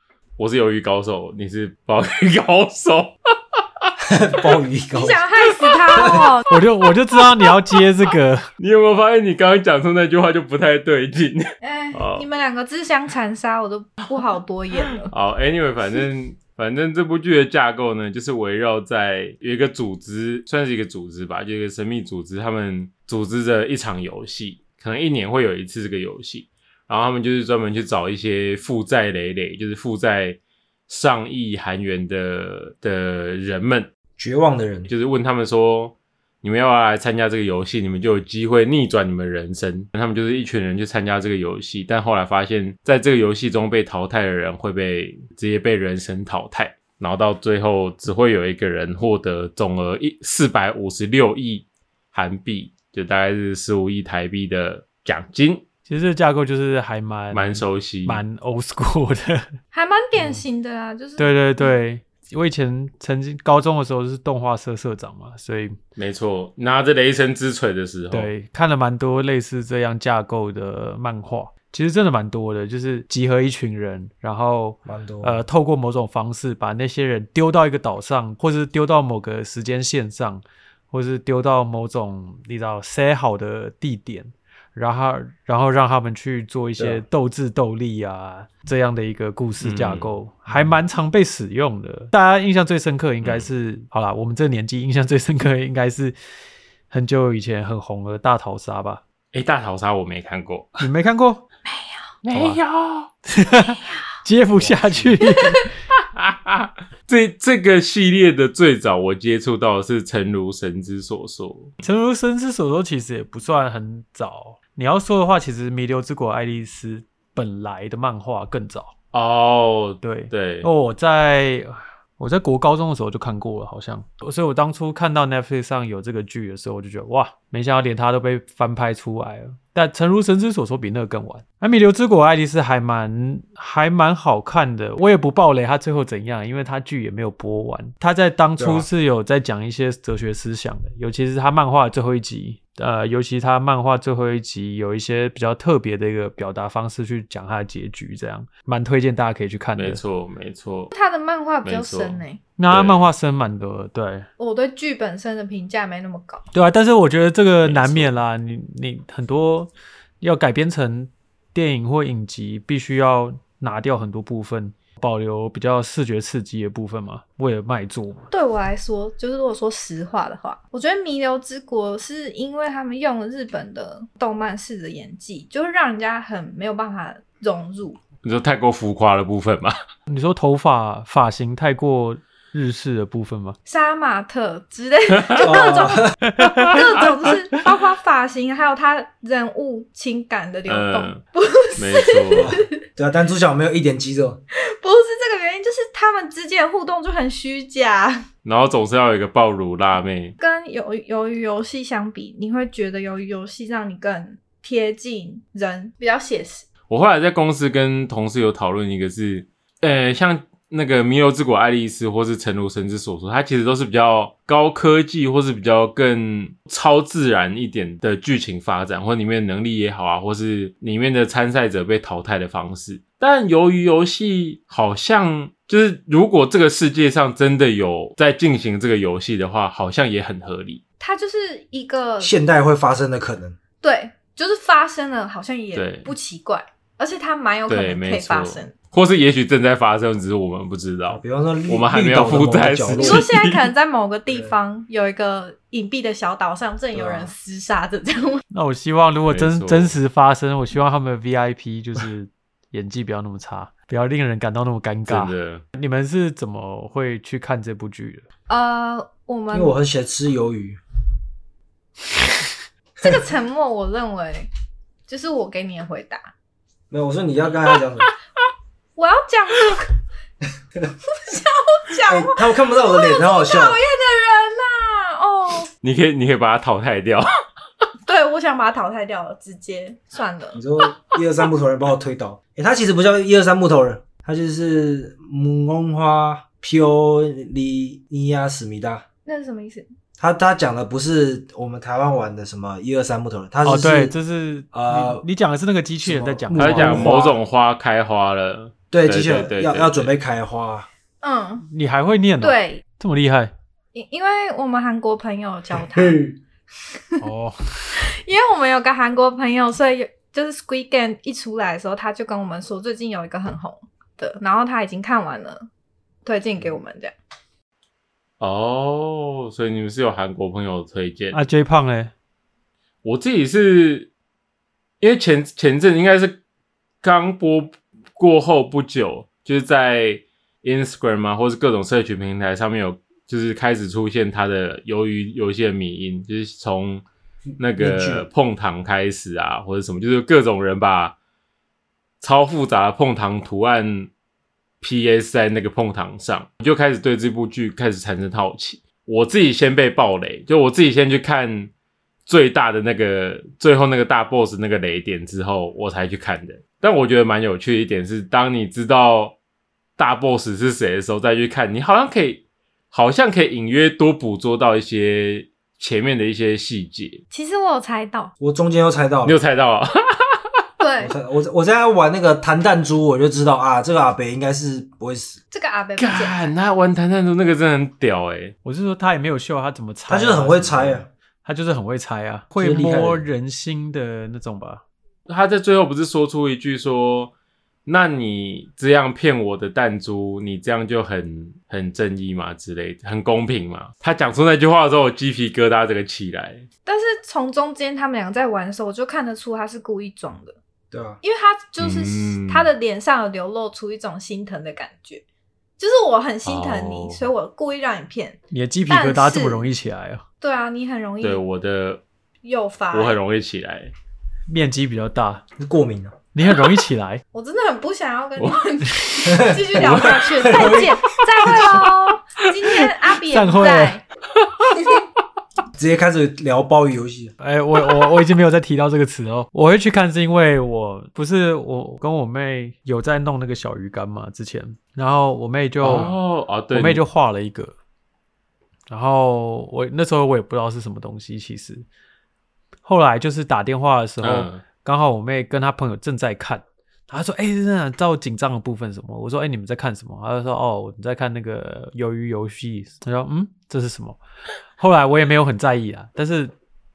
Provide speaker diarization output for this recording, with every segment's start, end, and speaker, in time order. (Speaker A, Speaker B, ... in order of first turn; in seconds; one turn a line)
Speaker A: 0.4-3.9
Speaker B: 4.0-5.2
Speaker C: 4.9-6.5
Speaker B: 5.9-6.2
Speaker D: 6.5-8.5
Speaker A: 8.6-12.2
Speaker C: 11.6-15.1
Speaker A: 15.1-33.9
Speaker B: 34.2-34.9
Speaker A: 34.9-55.6
Speaker D: 55.9-59.6
Speaker A: 57.3-58.2
Speaker C: 59.7-61.8
Speaker D: 61.2-65.8
Speaker A: 66.0-68.3
Speaker D: 68.1-96.2
Speaker B: 74.8-75.4
Speaker B: 86.8-87.0
Speaker A: 89.6-90.1
Speaker A: 93.2-93.5
Speaker D: 96.9-99.0
Speaker A: 99.3-100.8
Speaker D: 100.8-101.4
Speaker C: 101.7-102.1
Speaker A: 102.2-103.1
Speaker D: 102.3-102.6
Speaker D: 103.2-105.6
Speaker B: 104.5-105.1
Speaker A: 106.1-111.8
Speaker D: 111.8-118.9
Speaker A: 119.1-120.7
Speaker D: 120.0-150.0
Speaker B: 138.6-138.9
Speaker A: 149.8-150.9
Speaker C: 150.9-152.4
Speaker A: 151.6-152.2
Speaker D: 152.6-154.3
Speaker A: 152.7-153.0
Speaker C: 154.4-156.4
Speaker D: 156.5-168.3
Speaker A: 157.6-158.1
Speaker C: 168.3-178.0
Speaker A: 178.2-179.7
Speaker D: 180.1-183.6
Speaker C: 183.7-192.7
Speaker A: 185.2-185.6
Speaker B: 185.4-186.2
Speaker D: 186.2-187.3
Speaker A: 190.7-191.2
Speaker A: 191.8-192.6
Speaker B: 192.4-194.4
Speaker C: 194.7-198.2
Speaker A: 198.4-200.3
Speaker C: 200.4-206.6
Speaker A: 206.9-230.8
Speaker C: 231.0-232.3
Speaker B: 232.2-233.6
Speaker C: 233.8-238.7
Speaker A: 235.7-236.1
Speaker A: 237.7-243.7
Speaker B: 241.1-243.3
Speaker C: 242.9-248.4
Speaker B: 244.3-244.6
Speaker B: 246.9-247.3
Speaker D: 248.5-258.2
Speaker A: 249.3-249.9
Speaker A: 255.1-255.6
Speaker C: 258.5-259.8
Speaker B: 259.5-260.8
Speaker C: 263.0-264.5
Speaker C: 265.1-266.3
Speaker B: 266.9-268.1
Speaker C: 268.9-269.9
Speaker C: 271.1-275.7
Speaker B: 272.1-273.8
Speaker A: 275.8-277.3
Speaker C: 278.1-280.6
Speaker B: 280.5-289.0
Speaker C: 289.2-289.9
Speaker B: 290.2-294.1
Speaker D: 293.6-297.2
Speaker B: 294.7-295.2
Speaker B: 296.0-297.4
Speaker A: 296.5-300.1
Speaker B: 298.9-300.9
Speaker C: 301.2-301.6
Speaker D: 301.7-303.5
Speaker C: 302.4-302.8
Speaker C: 303.9-306.2
Speaker B: 305.7-306.4
Speaker C: 306.9-307.2
Speaker D: 307.2-308.0
Speaker C: 308.2-315.7
Speaker C: 316.2-317.1
Speaker A: 318.4-321.4
Speaker D: 321.3-322.1
Speaker A: 323.0-324.1
Speaker A: 325.0-326.4
Speaker A: 327.0-337.0
Speaker A: 337.6-341.1
Speaker B: 337.8-338.3
Speaker A: 342.2-344.1
Speaker A: 344.8-351.7
Speaker A: 352.2-359.4
Speaker A: 360.0-367.2
Speaker C: 367.3-368.3
Speaker B: 368.4-369.4
Speaker A: 369.2-370.4
Speaker C: 370.8-371.1
Speaker B: 371.0-375.4
Speaker C: 375.5-376.5
Speaker A: 376.0-378.5
Speaker D: 378.6-384.8
Speaker B: 380.1-381.1
Speaker B: 382.5-383.2
Speaker A: 385.3-387.3
Speaker A: 387.9-396.7
Speaker C: 396.9-400.6
Speaker B: 400.9-401.2
Speaker C: 401.2-405.2
Speaker A: 401.8-402.7
Speaker C: 405.8-409.7
Speaker A: 406.4-407.2
Speaker D: 408.5-410.2
Speaker C: 410.4-411.4
Speaker A: 411.2-412.0
Speaker C: 412.4-413.2
Speaker A: 412.9-413.9
Speaker D: 414.5-415.4
Speaker B: 415.6-416.2
Speaker D: 416.3-417.2
Speaker C: 417.3-424.0
Speaker D: 418.8-419.4
Speaker B: 419.3-421.6
Speaker D: 423.2-424.0
Speaker B: 425.8-427.3
Speaker D: 427.4-436.2
Speaker A: 435.8-437.0
Speaker D: 436.7-437.7
Speaker D: 438.9-441.9
Speaker D: 442.8-454.2
Speaker A: 444.2-444.6
Speaker D: 454.8-456.5